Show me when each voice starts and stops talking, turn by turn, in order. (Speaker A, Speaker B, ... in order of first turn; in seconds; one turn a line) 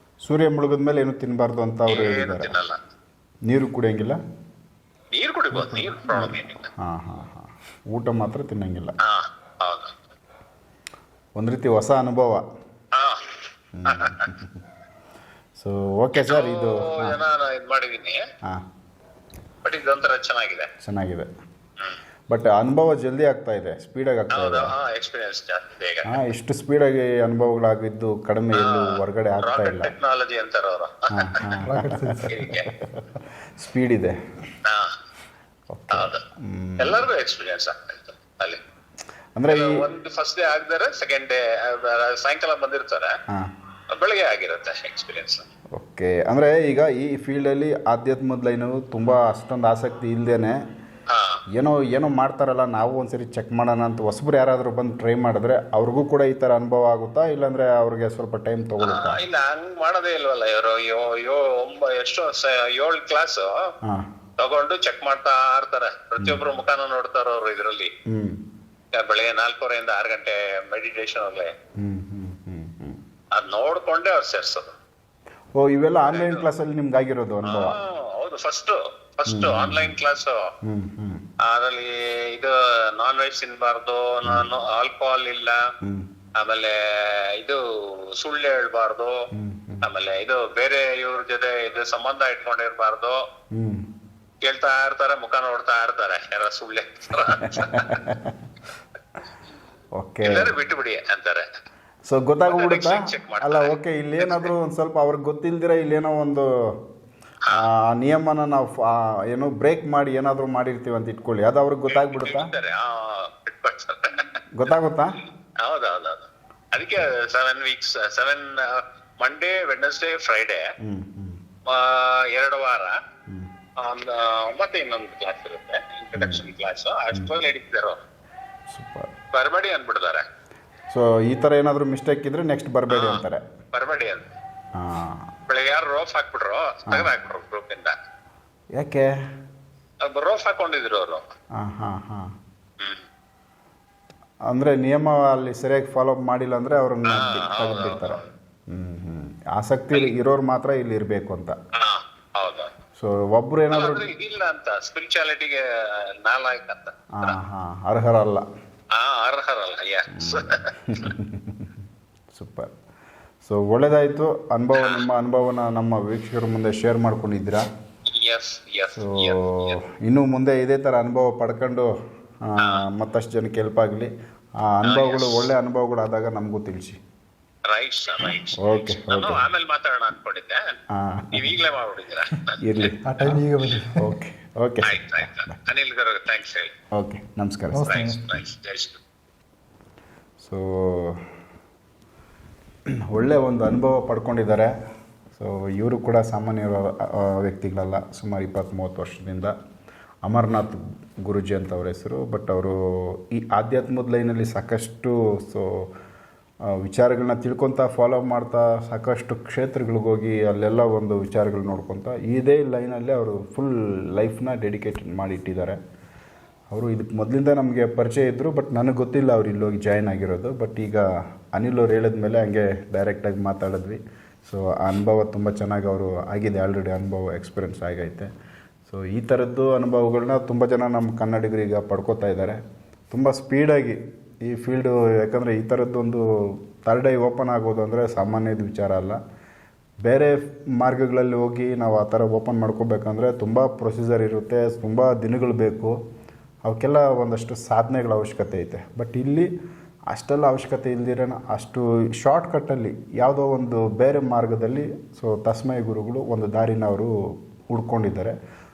Speaker A: 0.2-2.5
Speaker B: 1.9-2.8
Speaker A: 3.5-4.2
Speaker B: 5.1-6.7
Speaker A: 5.5-8.9
Speaker B: 9.1-9.9
Speaker A: 11.4-12.4
Speaker B: 13.0-13.2
Speaker A: 13.8-14.6
Speaker B: 13.9-14.3
Speaker A: 15.6-17.2
Speaker B: 16.2-18.2
Speaker B: 19.6-20.7
Speaker A: 20.8-21.3
Speaker A: 22.3-24.7
Speaker B: 24.3-26.2
Speaker A: 26.1-29.9
Speaker B: 28.6-28.8
Speaker B: 29.4-31.6
Speaker A: 31.1-33.0
Speaker C: 31.6-32.4
Speaker B: 32.3-32.7
Speaker A: 33.6-34.1
Speaker A: 35.7-37.0
Speaker B: 35.9-36.2
Speaker B: 36.8-38.6
Speaker A: 39.4-39.7
Speaker B: 39.5-43.1
Speaker B: 43.9-45.5
Speaker A: 45.7-50.6
Speaker B: 51.1-51.4
Speaker A: 51.6-59.2
Speaker B: 58.9-63.5
Speaker B: 64.4-67.9
Speaker A: 68.1-68.4
Speaker B: 69.0-71.5
Speaker A: 71.8-73.0
Speaker B: 73.3-74.7
Speaker A: 75.6-77.8
Speaker B: 76.1-76.5
Speaker B: 77.5-80.3
Speaker A: 79.2-80.0
Speaker A: 80.6-81.2
Speaker B: 81.4-85.6
Speaker B: 86.4-87.6
Speaker B: 88.2-89.1
Speaker A: 89.3-89.9
Speaker B: 89.8-93.2
Speaker A: 93.5-93.8
Speaker B: 94.5-97.9
Speaker A: 97.5-98.4
Speaker A: 100.0-100.5
Speaker B: 100.2-101.4
Speaker A: 102.1-106.5
Speaker B: 102.5-104.5
Speaker A: 107.5-112.5
Speaker B: 111.9-114.7
Speaker A: 114.6-115.1
Speaker B: 115.6-120.6
Speaker A: 120.8-121.4
Speaker B: 121.7-123.0
Speaker B: 123.8-128.0
Speaker A: 126.1-126.4
Speaker A: 128.7-129.1
Speaker B: 129.3-130.2
Speaker A: 130.9-133.4
Speaker B: 132.9-134.2
Speaker A: 134.8-135.3
Speaker B: 135.5-137.9
Speaker A: 138.8-139.1
Speaker B: 140.1-141.2
Speaker A: 141.6-142.3
Speaker A: 144.5-148.2
Speaker B: 147.1-148.2
Speaker A: 148.7-151.5
Speaker B: 151.8-152.7
Speaker A: 153.0-154.1
Speaker B: 153.7-155.6
Speaker B: 156.2-157.3
Speaker A: 157.2-158.4
Speaker B: 159.0-161.1
Speaker A: 160.2-161.7
Speaker A: 162.3-162.7
Speaker A: 163.4-167.7
Speaker B: 164.8-165.0
Speaker B: 168.1-169.8
Speaker A: 168.9-171.9
Speaker A: 172.4-174.1
Speaker A: 174.6-177.0
Speaker B: 174.8-175.5
Speaker B: 177.7-180.7
Speaker A: 178.6-179.4
Speaker A: 180.9-181.5
Speaker B: 181.3-182.9
Speaker A: 182.6-183.4
Speaker C: 183.0-184.2
Speaker A: 184.0-185.5
Speaker B: 184.9-186.7
Speaker A: 186.9-187.9
Speaker C: 187.7-188.3
Speaker B: 187.8-189.0
Speaker A: 190.4-191.2
Speaker A: 193.1-194.7
Speaker A: 195.3-199.5
Speaker A: 200.3-205.8
Speaker A: 206.8-215.8
Speaker A: 216.7-228.3
Speaker A: 228.8-232.6
Speaker A: 233.1-236.2
Speaker A: 236.8-239.2
Speaker A: 240.0-245.9
Speaker A: 246.6-249.5
Speaker A: 250.1-257.1
Speaker A: 257.7-258.3